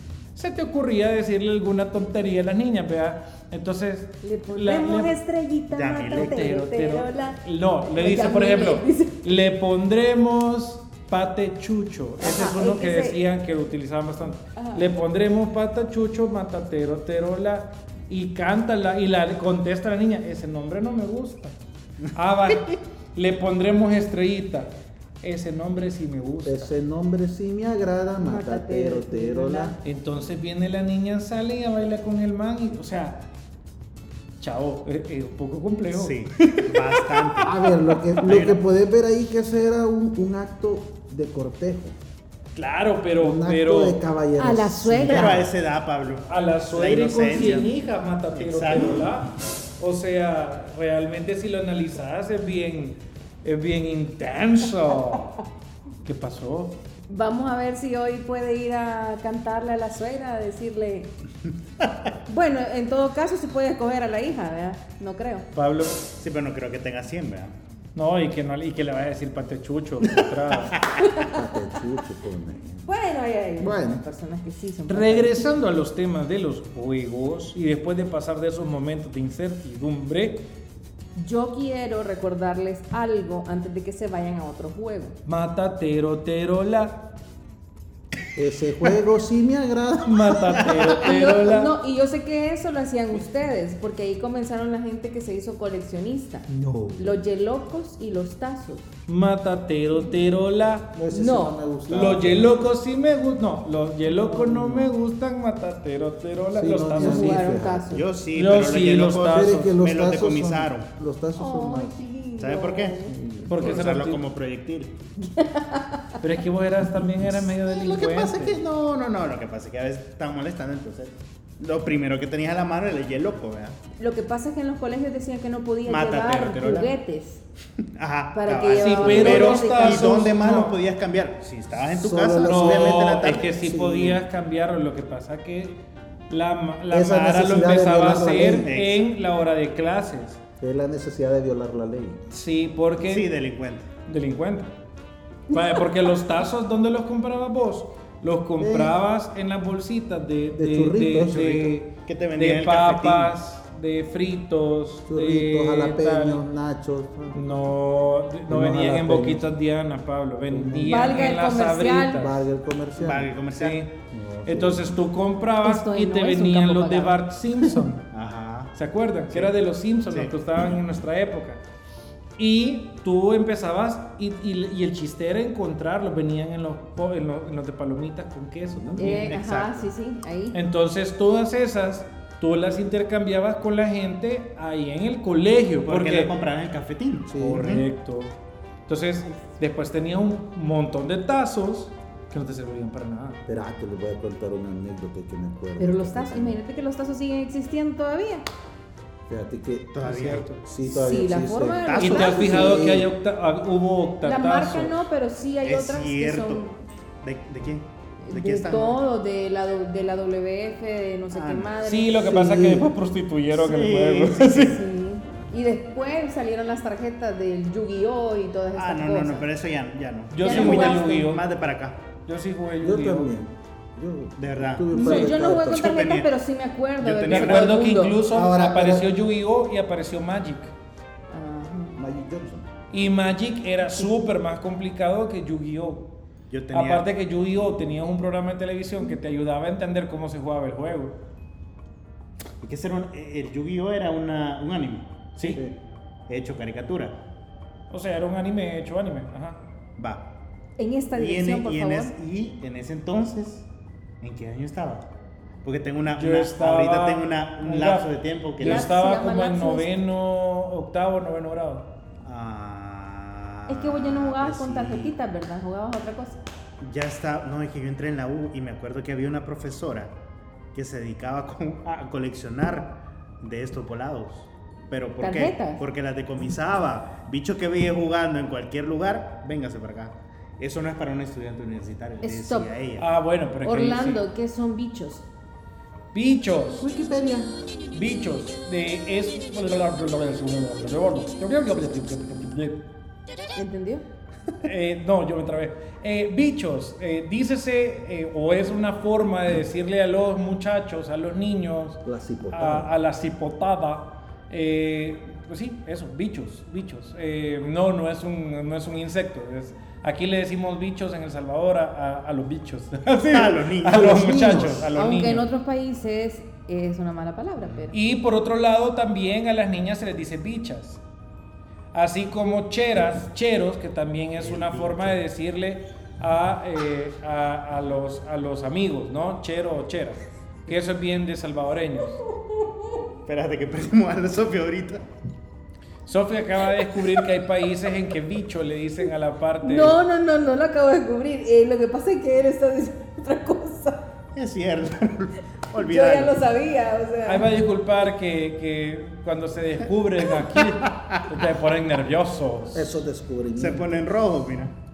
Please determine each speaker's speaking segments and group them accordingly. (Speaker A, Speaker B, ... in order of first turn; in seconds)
Speaker A: 0.3-5.1, 6.1-21.5, 22.1-26.7, 29.8-33.2, 34.4-36.1, 42.5-44.0, 46.3-55.4, 56.0-56.7, 65.5-66.0, 67.9-70.8, 74.9-80.4, 85.2-87.0, 90.0-91.7, 99.1-100.9, 101.9-107.4, 108.3-109.7, 113.5-114.2, 116.2-118.6, 128.8-130.8, 132.4-135.8, 136.3-140.4, 142.3-143.3, 144.1-144.7, 145.5-156.4, 157.3-162.4, 163.5-163.9, 164.4-168.0, 168.7-171.6, 172.4-179.3, 180.5-186.3, 187.4-188.3, 188.9-193.4, 200.0-200.6, 202.0-205.0, 211.8-214.8, 220.3-221.4, 222.2-223.3, 227.3-230.7, 232.9-236.1, 236.7-241.1, 245.4-245.6, 247.9-249.6, 256.1-261.9, 283.0-284.2, 286.1-286.9, 287.9-292.8, 294.6-315.4, 317.9-321.0, 321.9-332.2, 336.1-340.0, 347.2-352.9
Speaker B: 4.2-9.2, 12.2-13.2, 14.6-14.8, 28.2-29.8, 44.4-45.3, 57.1-61.1, 62.3-65.5, 71.0-71.5, 72.8-75.5, 81.2-85.2, 90.9-96.5, 97.0-98.9, 101.1-101.6, 106.9-108.0, 111.3-113.2, 115.2-116.0, 124.0-127.4, 128.3-130.2, 160.8-162.2, 165.6-167.2, 179.0-180.6, 195.8-198.4, 200.8-202.8, 204.2-206.8, 208.2-212.3, 214.6-219.5, 220.4-221.2, 224.9-228.2, 231.3-232.0, 250.8-252.1, 258.6-259.9, 263.7-266.4, 275.2-275.8, 282.2-282.7, 283.6-285.2, 293.5-294.0, 314.9-317.9, 332.3-333.0, 339.6-344.0, 345.7-347.5
Speaker C: 5.7-6.4, 35.9-37.5, 38.2-38.6, 45.0-47.7, 48.4-49.1, 66.2-67.5, 107.9-110.9, 112.4-113.0, 113.5-114.9, 117.5-123.8, 125.8-126.9, 128.0-133.5, 138.6-139.0, 143.0-143.9, 152.1-153.3, 163.0-163.8, 168.1-168.7, 179.0-179.9, 185.8-187.8, 199.9-200.4, 201.8-202.5, 205.6-206.6, 207.2-209.0, 211.3-211.7, 213.5-214.8, 218.7-222.0, 224.4-226.3, 227.0-227.8, 236.5-237.1, 242.6-245.1, 246.3-247.1, 251.1-253.7, 254.2-255.1, 255.6-258.9, 262.2-265.1, 266.8-270.1, 270.7-283.1, 313.3-314.8, 324.4-325.1, 333.2-335.0, 344.3-346.3, 350.9-351.2, 353.6-354.7
Speaker D: 26.4-29.8, 37.4-42.0, 43.2-45.5, 71.2-72.9, 73.6-74.0, 88.3-90.7, 96.5-97.2, 100.9-102.7, 104.0-104.9, 106.5-108.0, 109.2-111.9, 113.1-113.8, 129.0-129.4, 131.9-134.2, 136.9-138.7, 140.6-142.2, 148.6-149.0, 150.5-151.7, 155.1-157.6, 158.5-159.5, 160.5-161.1, 162.1-163.3, 164.1-165.0, 178.7-179.1, 187.3-187.8, 193.5-196.6, 199.3-200.0, 200.5-203.1, 212.2-212.9, 222.8-225.9, 228.3-229.1, 231.9-232.7, 245.4-245.7, 286.8-287.5, 302.0-302.9, 314.0-314.7, 352.7-353.9